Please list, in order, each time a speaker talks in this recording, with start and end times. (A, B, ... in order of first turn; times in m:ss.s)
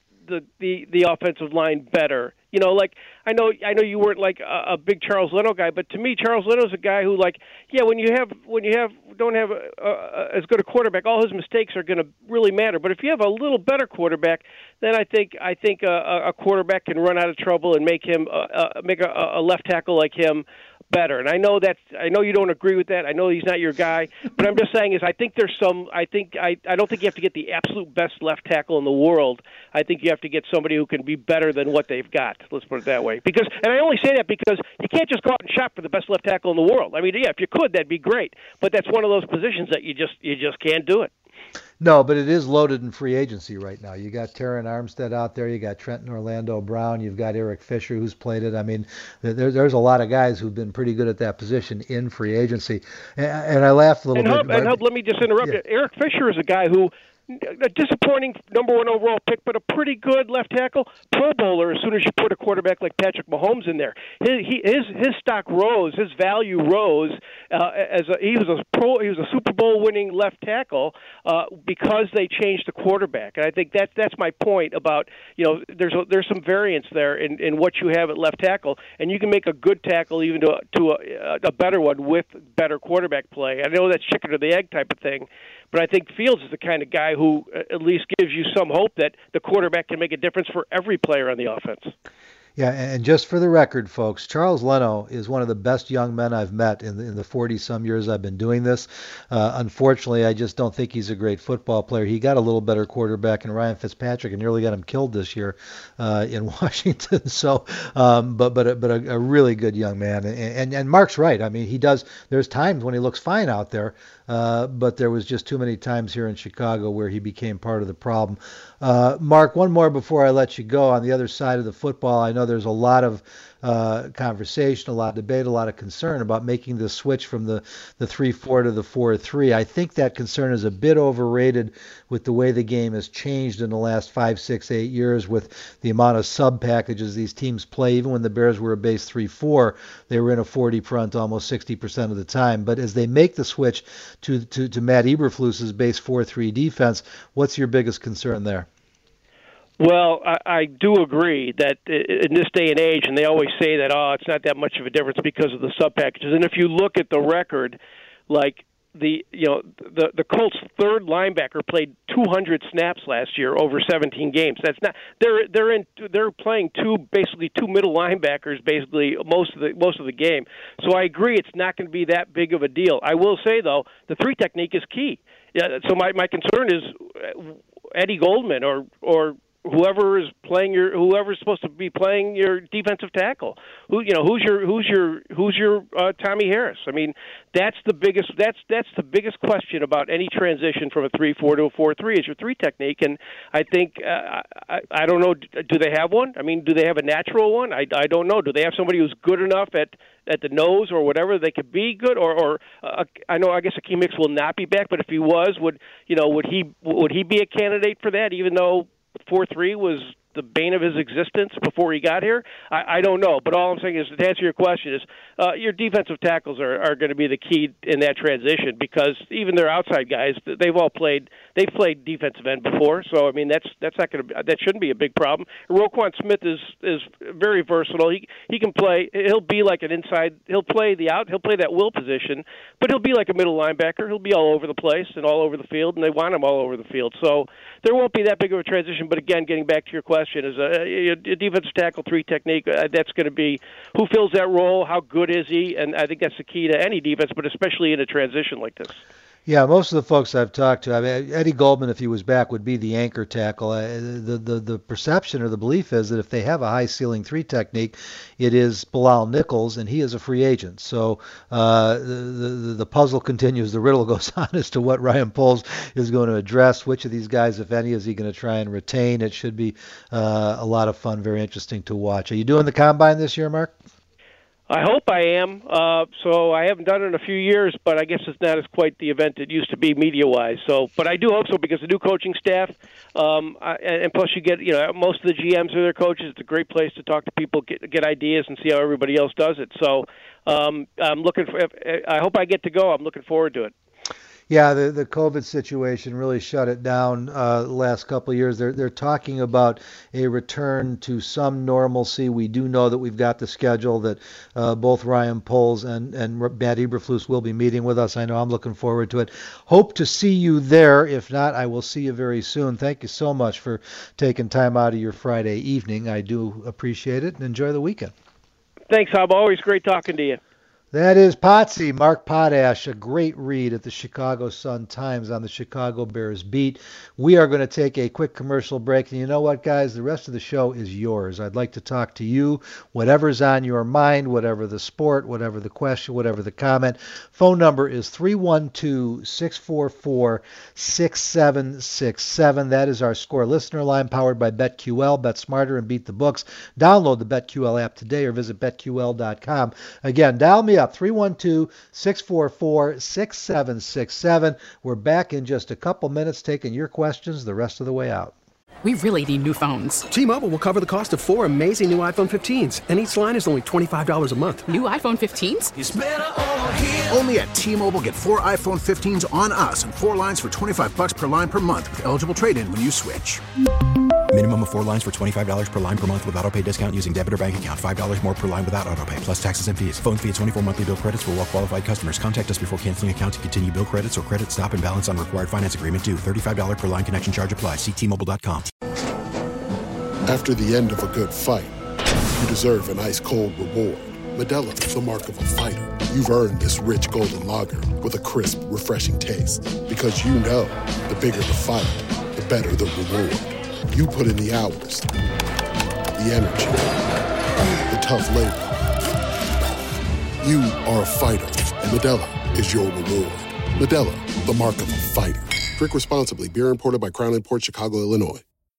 0:00.3-0:41.1 A
0:41.8-0:54.8 B
0:54.2-1:31.9 A
1:32.6-2:28.7 B
2:29.8-2:37.8 A
2:38.3-4:09.0 A
4:09.5-4:33.8 B
4:34.7-4:53.7 A
4:54.5-5:18.1 B
5:18.9-5:20.4 A
5:20.9-5:58.4 B
5:58.8-6:00.0 C
6:00.1-6:04.7 D
6:04.7-6:05.7 C
6:05.8-6:13.4 E
6:14.3-6:28.7 F
6:30.2-6:31.8 G
6:32.4-6:45.1 G
6:46.2-6:47.0 G
6:47.9-6:48.7 G
6:50.4-6:58.4 G